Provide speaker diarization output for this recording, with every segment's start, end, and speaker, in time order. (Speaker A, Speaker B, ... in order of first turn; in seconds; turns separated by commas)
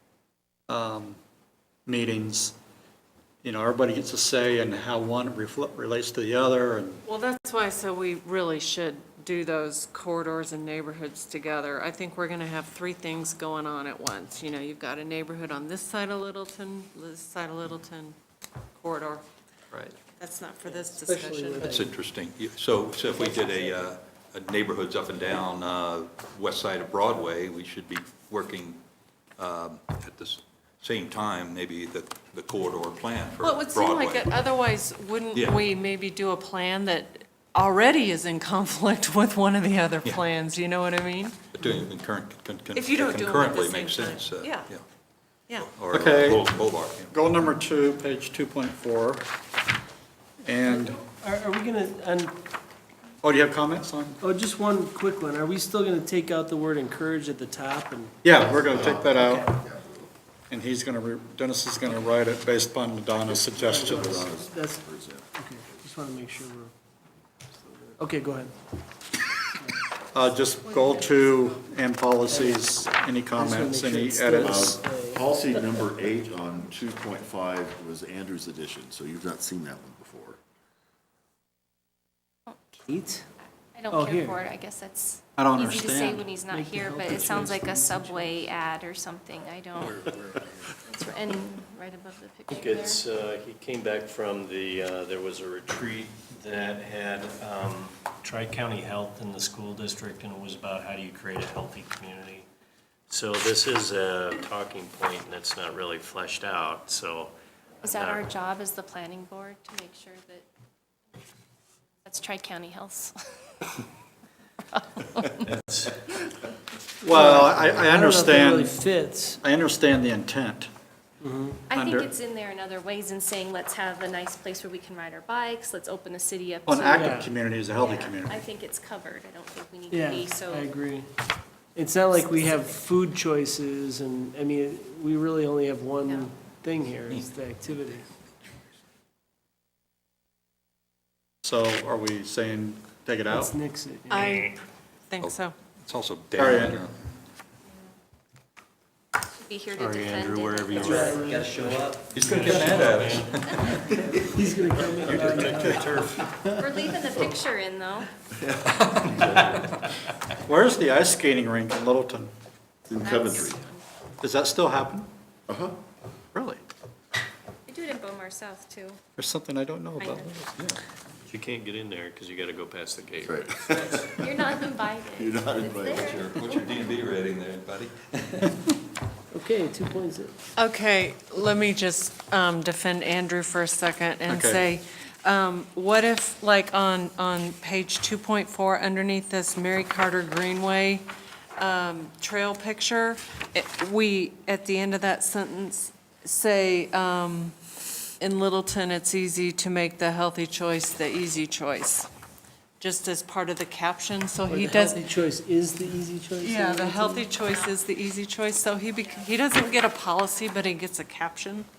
Speaker A: 0.7-1.2, Speaker A: 1.9-2.5, Speaker A: 3.4-7.0, Speaker B: 7.0-18.2, Speaker B: 18.8-19.2, Speaker B: 20.0-21.8, Speaker C: 20.9-21.9, Speaker D: 21.6-28.8, Speaker D: 29.4-34.3, Speaker B: 33.4-41.4, Speaker D: 35.3-35.6, Speaker D: 41.5-44.8, Speaker B: 42.7-44.7, Speaker D: 45.6-47.1, Speaker A: 45.9-46.5, Speaker A: 47.1-49.2, Speaker A: 50.4-51.0, Speaker C: 51.2-52.3, Speaker A: 53.2-54.2, Speaker C: 54.2-58.2, Speaker A: 58.2-59.5, Speaker E: 58.6-60.1, Speaker A: 60.5-64.3, Speaker E: 63.3-65.4, Speaker C: 63.7-64.8, Speaker C: 65.3-66.7, Speaker C: 67.8-68.5, Speaker A: 70.1-74.8, Speaker B: 70.8-71.4, Speaker C: 72.3-72.6, Speaker C: 73.4-75.2, Speaker E: 74.4-80.4, Speaker F: 82.5-82.9, Speaker C: 82.9-83.2, Speaker F: 83.7-90.3, Speaker C: 83.9-84.4, Speaker A: 85.4-86.3, Speaker C: 86.5-88.3, Speaker F: 90.8-93.0, Speaker G: 92.5-102.5, Speaker G: 103.1-107.3, Speaker F: 107.8-110.5, Speaker G: 107.8-108.2, Speaker F: 112.0-113.1, Speaker F: 114.8-115.5, Speaker G: 115.5-116.0, Speaker A: 117.0-118.8, Speaker C: 117.0-119.4, Speaker A: 119.4-120.7, Speaker C: 121.2-121.6, Speaker F: 121.7-130.8, Speaker A: 121.7-122.1, Speaker A: 126.7-128.4, Speaker C: 127.0-127.3, Speaker C: 129.9-131.1, Speaker C: 131.8-138.0, Speaker F: 132.1-132.9, Speaker D: 137.1-138.0, Speaker A: 141.4-143.5, Speaker C: 143.3-144.4, Speaker B: 144.1-144.6, Speaker B: 145.1-145.5, Speaker D: 145.2-147.0, Speaker A: 146.4-146.9, Speaker F: 149.4-151.4, Speaker G: 149.8-151.7, Speaker C: 150.9-152.9, Speaker D: 151.9-156.4, Speaker G: 152.3-153.3, Speaker C: 154.3-156.6, Speaker A: 155.6-155.8, Speaker F: 156.5-158.1, Speaker E: 158.4-159.7, Speaker A: 160.4-162.3, Speaker E: 162.9-163.6, Speaker F: 163.0-163.8, Speaker A: 164.2-165.1, Speaker E: 165.5-165.8, Speaker A: 166.3-166.6, Speaker F: 167.7-169.0, Speaker A: 169.2-170.7, Speaker F: 170.0-170.4, Speaker G: 171.3-173.5, Speaker E: 173.2-174.5, Speaker F: 173.9-176.9, Speaker E: 175.2-176.1, Speaker D: 176.0-178.7, Speaker C: 179.4-180.3, Speaker B: 180.6-191.1, Speaker A: 184.3-184.7, Speaker B: 191.6-197.6, Speaker B: 198.2-202.1, Speaker B: 202.8-205.0, Speaker C: 204.5-207.3, Speaker B: 206.4-211.7